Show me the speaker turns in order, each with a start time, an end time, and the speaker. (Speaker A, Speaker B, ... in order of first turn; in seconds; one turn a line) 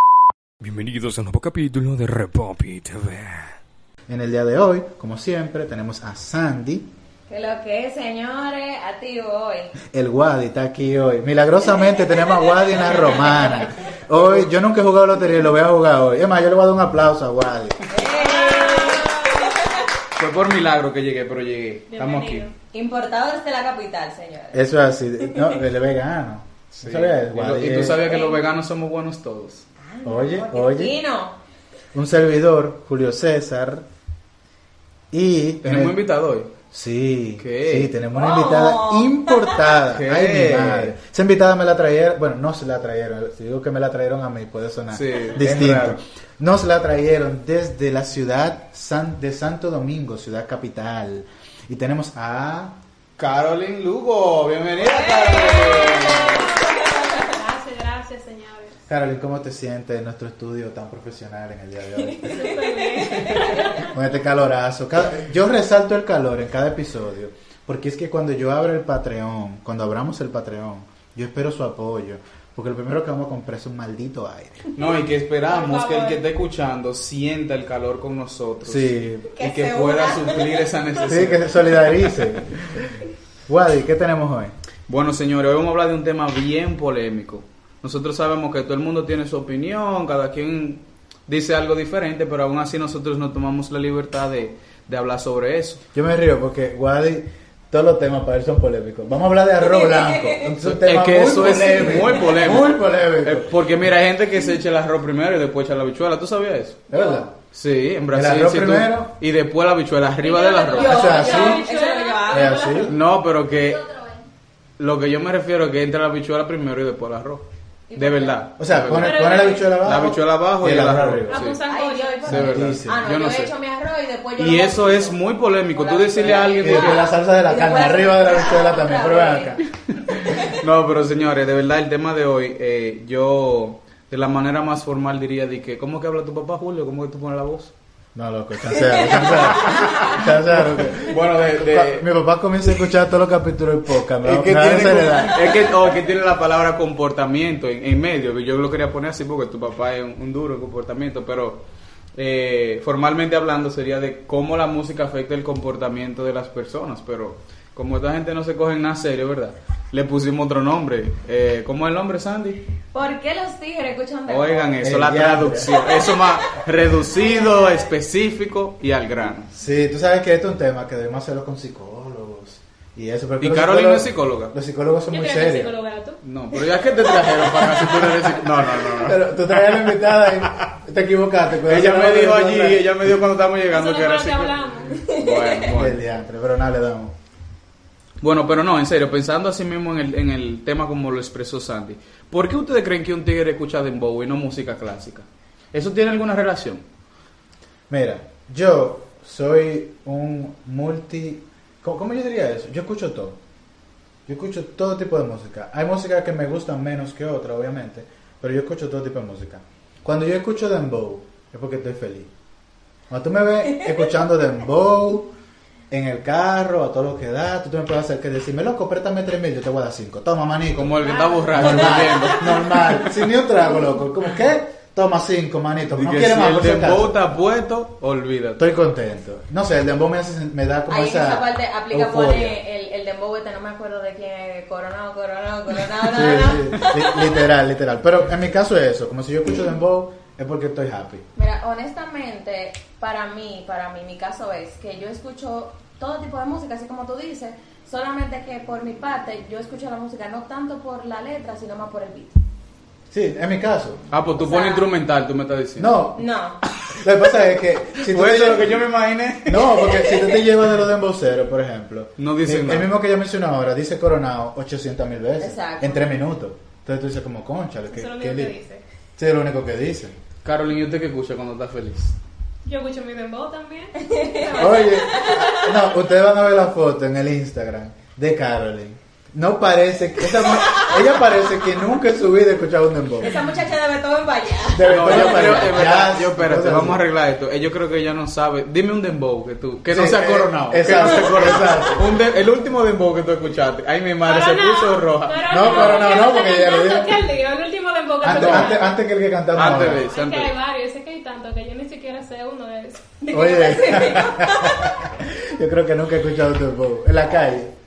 Speaker A: 0.6-3.5
Speaker B: 4.1-6.9
Speaker C: 7.3-9.7
Speaker B: 9.9-17.9
Speaker C: 12.8-13.7
Speaker C: 17.9-19.9
Speaker D: 18.1-19.6
Speaker E: 20.1-22.5
Speaker D: 21.9-22.5
Speaker C: 22.7-24.7
Speaker B: 24.5-28.1
Speaker C: 25.2-25.6
Speaker E: 26.7-29.6
Speaker C: 28.0-28.4
Speaker C: 29.8-31.4
Speaker B: 30.0-30.9
Speaker B: 31.9-33.8
Speaker B: 35.1-36.0
Speaker E: 35.6-36.5
Speaker B: 36.7-52.7
Speaker E: 37.4-37.9
Speaker C: 38.1-39.7
Speaker E: 39.9-41.0
Speaker E: 44.9-46.0
Speaker E: 53.2-56.6
Speaker C: 54.8-57.4
Speaker D: 55.6-58.8
Speaker B: 58.9-62.5
Speaker C: 62.2-63.8
Speaker D: 62.3-63.9
Speaker B: 63.7-74.7
Speaker E: 74.7-82.3
Speaker D: 75.4-76.2
Speaker B: 78.6-79.3
Speaker C: 79.3-80.6
Speaker B: 81.0-82.7
Speaker B: 83.5-84.5
Speaker E: 84.9-95.8
Speaker B: 95.9-103.5
Speaker C: 99.6-100.4
Speaker E: 100.6-106.8
Speaker B: 106.9-107.3
Speaker C: 106.9-107.2
Speaker E: 107.5-111.2
Speaker B: 108.1-109.1
Speaker D: 110.2-113.0
Speaker C: 110.7-112.8
Speaker B: 110.8-111.6
Speaker B: 112.3-112.9
Speaker E: 112.8-113.9
Speaker E: 114.8-121.6
Speaker C: 117.9-118.4
Speaker B: 118.6-121.4
Speaker D: 118.9-119.8
Speaker D: 121.3-122.2
Speaker C: 121.6-129.6
Speaker E: 122.2-123.5
Speaker B: 122.2-123.0
Speaker E: 124.4-127.1
Speaker B: 126.5-129.6
Speaker C: 130.1-130.4
Speaker E: 130.1-137.7
Speaker B: 138.1-145.7
Speaker C: 138.8-140.2
Speaker E: 139.7-142.1
Speaker E: 144.2-151.6
Speaker E: 152.2-162.6
Speaker C: 162.9-164.8
Speaker E: 164.3-169.5
Speaker B: 164.8-165.7
Speaker C: 165.8-167.9
Speaker B: 169.5-175.7
Speaker E: 173.4-174.5
Speaker D: 175.1-176.2
Speaker E: 176.2-180.7
Speaker B: 178.7-182.9
Speaker E: 181.7-186.0
Speaker D: 183.7-185.0
Speaker C: 185.0-185.6
Speaker B: 185.6-187.1
Speaker E: 188.2-196.8
Speaker B: 197.9-203.4
Speaker B: 204.3-212.3
Speaker B: 213.1-215.3
Speaker B: 215.9-227.2
Speaker E: 220.8-223.0
Speaker D: 221.0-222.3
Speaker E: 225.9-228.7
Speaker B: 228.6-232.6
Speaker C: 230.9-237.5
Speaker B: 236.1-241.2
Speaker C: 241.3-252.4
Speaker B: 253.1-254.0
Speaker E: 254.1-256.0
Speaker C: 254.4-254.9
Speaker B: 255.8-256.2
Speaker C: 256.2-256.6
Speaker B: 257.0-258.8
Speaker E: 258.0-260.0
Speaker B: 259.4-268.5
Speaker C: 259.9-260.3
Speaker E: 262.2-262.9
Speaker C: 265.4-266.1
Speaker D: 267.9-268.8
Speaker B: 269.2-270.1
Speaker E: 270.4-272.2
Speaker D: 272.6-275.0
Speaker C: 274.0-275.8
Speaker B: 274.5-283.3
Speaker C: 283.2-285.7
Speaker B: 284.7-287.0
Speaker E: 284.9-296.2
Speaker B: 289.9-292.0
Speaker D: 294.2-298.9
Speaker B: 295.5-297.2
Speaker B: 298.2-300.1
Speaker E: 298.3-298.8
Speaker E: 299.5-300.5
Speaker D: 300.0-303.6
Speaker B: 303.3-307.7
Speaker C: 303.4-304.9